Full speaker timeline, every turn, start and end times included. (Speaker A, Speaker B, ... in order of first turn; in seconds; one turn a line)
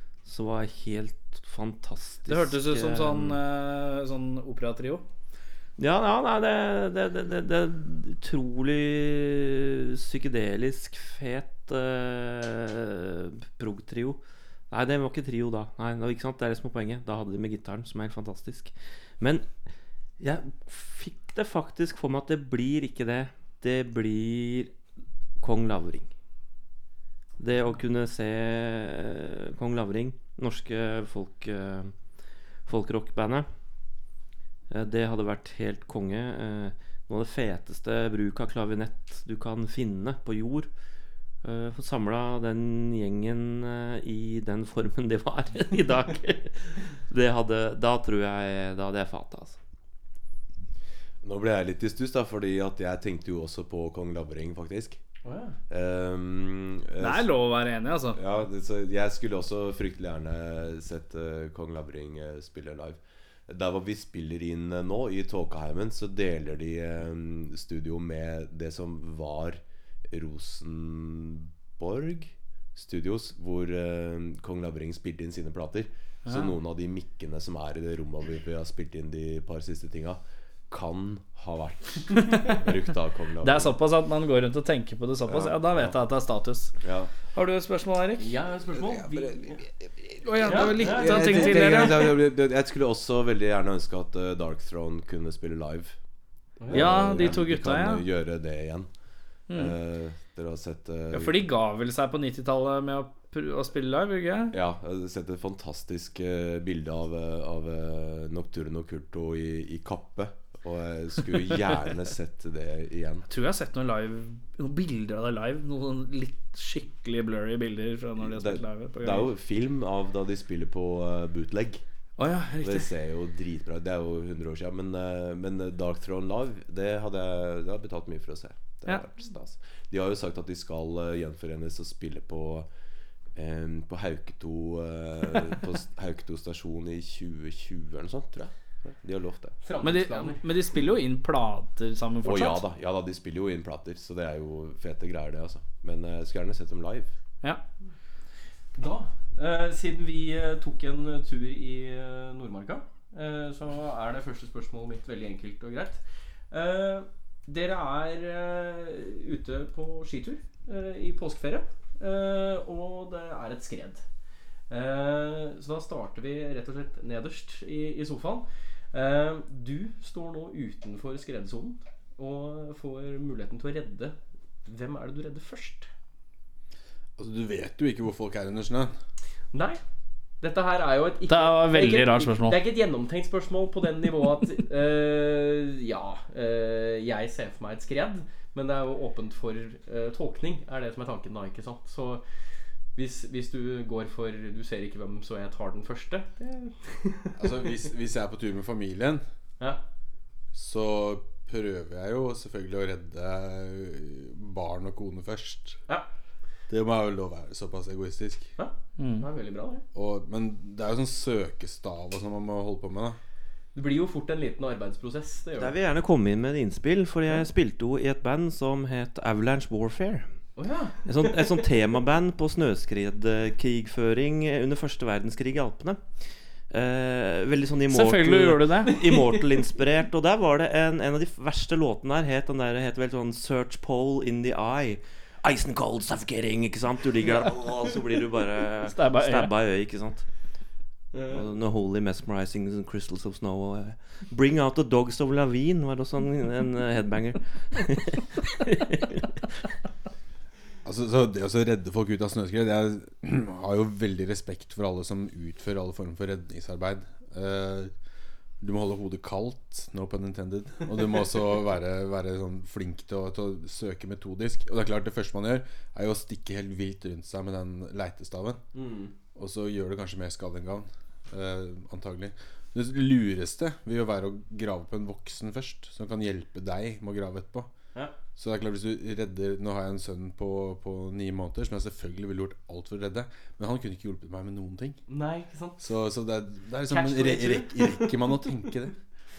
Speaker A: 0.2-3.4
Speaker B: 2.3-5.0
Speaker A: 5.8-19.7
Speaker A: 20.2-24.7
Speaker A: 25.4-26.1
Speaker A: 27.4-32.0
Speaker A: 32.6-33.5
Speaker A: 34.7-40.7
Speaker A: 41.4-49.6
Speaker C: 51.2-55.0
Speaker D: 55.2-55.5
Speaker C: 55.7-57.3
Speaker B: 57.0-58.2
Speaker C: 58.1-83.7
Speaker B: 76.2-76.5
Speaker B: 83.4-86.8
Speaker C: 85.2-86.0
Speaker C: 86.8-87.1
Speaker B: 87.3-88.3
Speaker D: 88.2-89.6
Speaker C: 88.8-96.0
Speaker B: 90.2-92.1
Speaker D: 90.4-91.9
Speaker D: 96.6-97.4
Speaker C: 96.6-98.9
Speaker B: 96.7-98.0
Speaker B: 99.5-99.7
Speaker C: 99.5-101.4
Speaker B: 101.1-104.5
Speaker C: 104.5-113.2
Speaker B: 113.3-119.3
Speaker C: 118.2-121.8
Speaker B: 122.2-122.9
Speaker C: 122.6-132.7
Speaker C: 133.3-139.6
Speaker D: 139.6-140.4
Speaker B: 139.8-142.6
Speaker C: 142.2-147.1
Speaker D: 148.7-164.0
Speaker D: 164.7-175.9
Speaker E: 177.2-178.9
Speaker D: 179.5-179.8
Speaker D: 180.4-192.2
Speaker B: 181.3-182.6
Speaker D: 192.9-197.8
Speaker E: 197.4-199.2
Speaker E: 200.5-205.8
Speaker E: 206.7-208.5
Speaker D: 208.6-209.8
Speaker B: 209.0-209.2
Speaker E: 209.9-213.2
Speaker D: 213.7-215.7
Speaker A: 215.6-220.3
Speaker D: 220.6-221.0
Speaker A: 221.0-240.3
Speaker B: 227.9-228.9
Speaker D: 228.9-229.3
Speaker B: 238.9-239.5
Speaker D: 241.1-241.4
Speaker A: 241.3-249.2
Speaker E: 250.8-257.9
Speaker E: 258.6-268.6
Speaker D: 268.7-269.1
Speaker E: 269.3-277.7
Speaker E: 278.3-285.0
Speaker D: 285.1-285.8
Speaker E: 285.8-288.9
Speaker D: 286.9-288.5